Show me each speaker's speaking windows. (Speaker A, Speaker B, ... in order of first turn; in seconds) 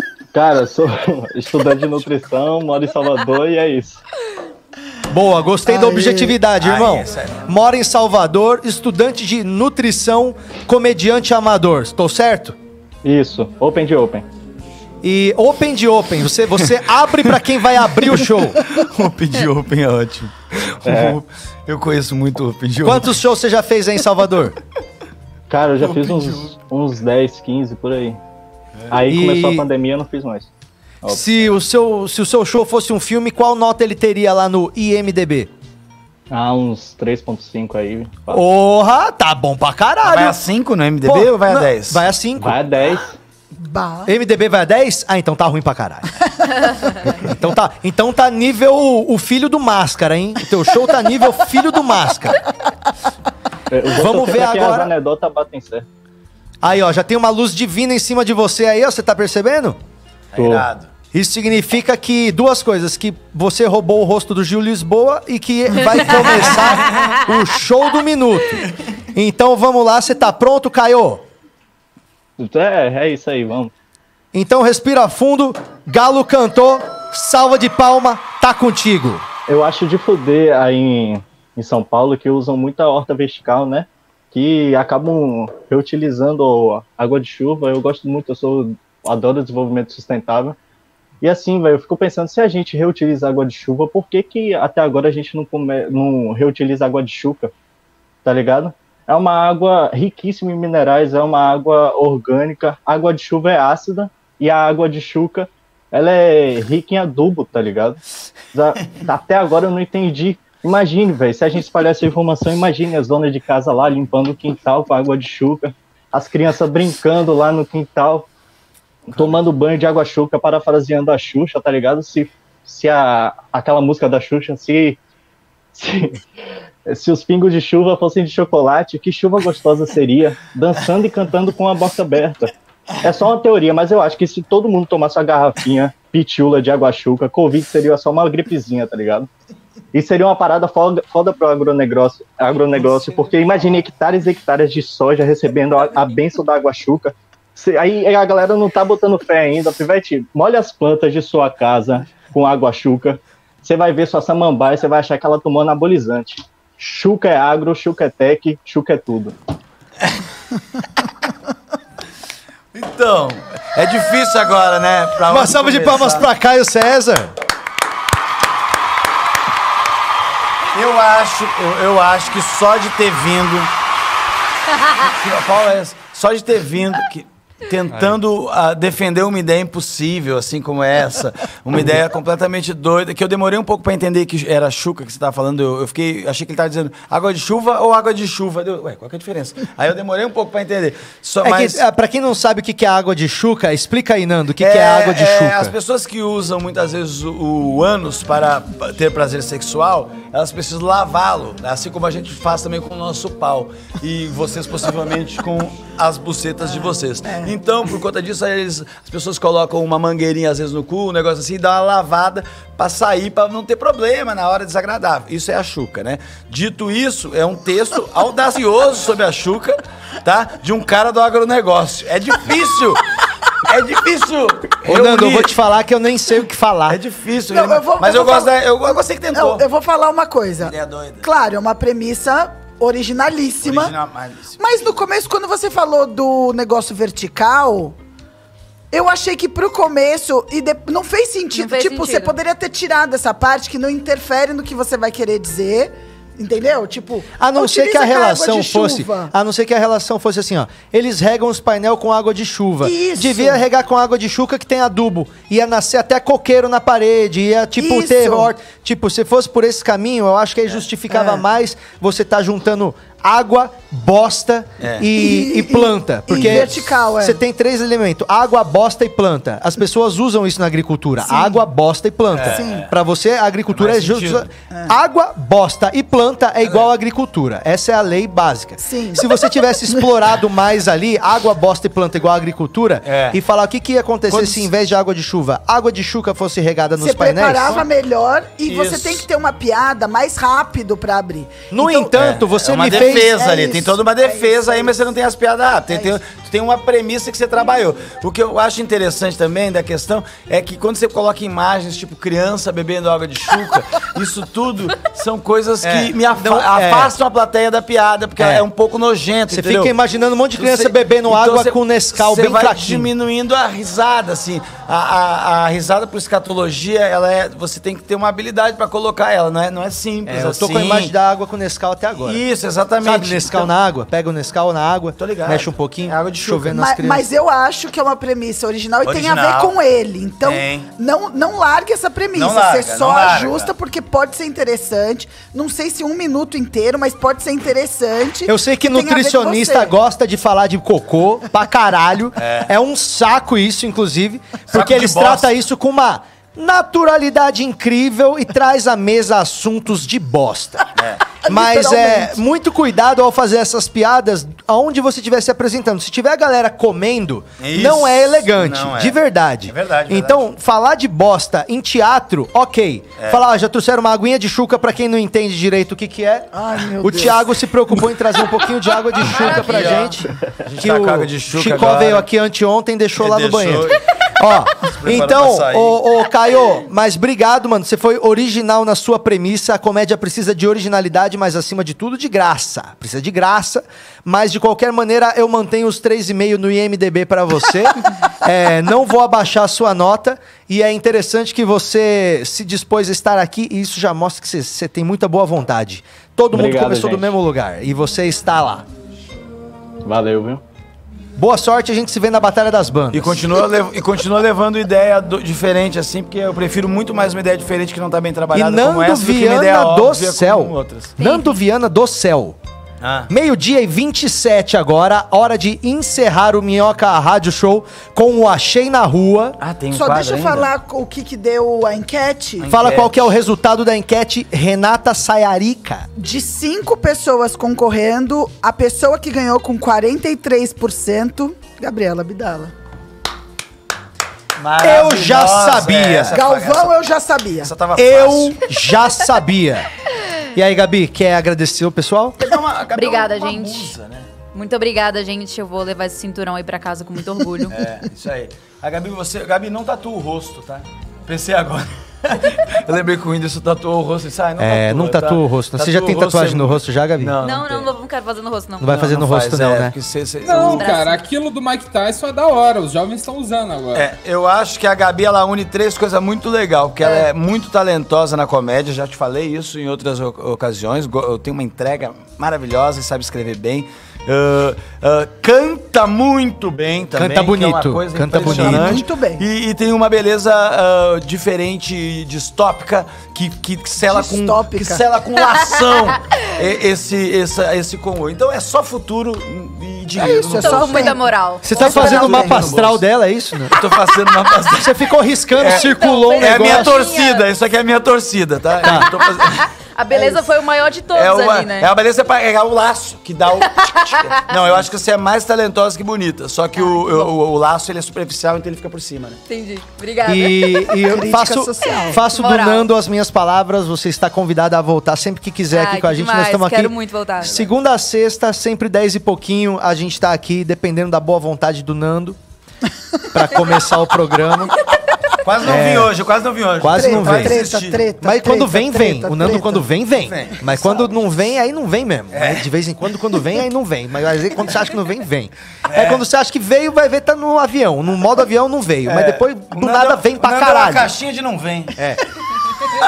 Speaker A: 0.3-4.0, 13.0-14.2, 20.9-21.2, 25.5-28.2, 28.9-30.5, 31.0-31.5, 36.3-38.4, 42.4-43.2, 53.7-55.9, 60.4-60.7, 72.4-73.7, 79.5-90.6, 91.2-97.5, 98.2-108.0, 108.5-118.3, 119.1-125.0, 125.7-126.2, 126.9-132.5, 133.0-139.3, 139.9-159.3, 396.5-397.4, 400.1-400.6
Speaker B: 5.1-12.6, 15.0-18.6, 22.8-24.6, 29.1-29.7, 31.1-35.5, 38.3-40.4, 41.0-42.8, 44.1-46.1, 47.0-52.4, 54.0-54.9, 56.6-59.8, 61.1-71.2, 74.3-79.2, 165.3-167.3, 191.4-195.7, 224.8-227.0, 247.4-287.8, 291.7-293.4, 305.8-307.1, 308.4-308.7, 309.5-313.1, 320.3-322.4, 323.0-327.3, 338.4-350.9, 351.4-398.9, 401.4-403.4, 408.5-412.6, 413.3-419.6, 422.7-426.1, 434.8-436.4, 437.9-439.9, 440.6-442.4, 454.6-457.4, 458.8-459.9, 477.1-479.0, 491.6-493.8, 494.8-497.0, 498.8-499.1, 510.3-522.4, 523.3-524.8, 525.6-526.1, 526.8-527.6, 528.2-541.1, 542.0-542.2
Speaker C: 5.7-6.3, 43.6-44.1, 227.5-233.9, 234.6-237.9, 238.9-249.3, 252.8-253.6, 257.8-258.5, 261.1-261.4, 265.1-267.4, 271.2-271.6, 272.5-272.9, 278.8-280.1, 287.0-292.1, 292.8-294.9, 295.9-296.1, 326.7-339.9, 351.4-352.4, 366.5-367.5, 419.9-422.7, 426.2-432.7, 436.3-437.7, 478.4-479.4, 484.1-485.0, 490.2-492.6, 510.9-512.2, 526.9-529.9
Speaker D: 6.6-7.5, 18.7-23.1, 25.8-26.5, 40.0-42.1, 60.3-60.9, 162.7-166.3, 170.7-173.7, 174.9-191.8, 194.6-223.0, 223.6-225.5, 226.9-229.7, 230.6-231.2, 233.6-234.6, 264.8-265.1, 272.3-272.9, 273.7-274.5, 283.1-283.4, 284.3-284.7, 288.6-289.2, 292.2-309.9, 310.6-321.1, 322.2-323.7, 325.2-326.8, 329.0-329.8, 330.4-330.9, 332.3-333.7, 342.4-342.7, 344.7-345.5, 350.9-351.3, 357.6-360.4, 369.2-372.3, 373.2-374.0, 374.8-376.0, 403.1-411.2, 413.0-413.3, 419.6-420.7, 422.6-423.3, 434.6-436.9, 437.6-438.6, 442.4-444.3, 447.7-457.9, 458.9-460.9, 463.9-491.2, 491.7-493.1, 493.7-494.9, 495.6-500.4, 501.1-509.4, 525.4-528.1, 530.2-530.6, 532.3-532.6, 535.9-536.2, 539.1-542.0
Speaker E: 241.5-242.4, 369.3-370.1, 411.2-411.6, 442.9-443.9, 444.5-447.8, 457.4-458.9, 460.5-461.2, 467.0-467.3, 490.6-492.5, 495.6-497.4, 498.8-499.2, 499.9-501.9, 503.8-504.4, 506.8-507.3, 509.5-510.9, 512.1-512.9, 515.7-517.7
Speaker F: 460.4-464.1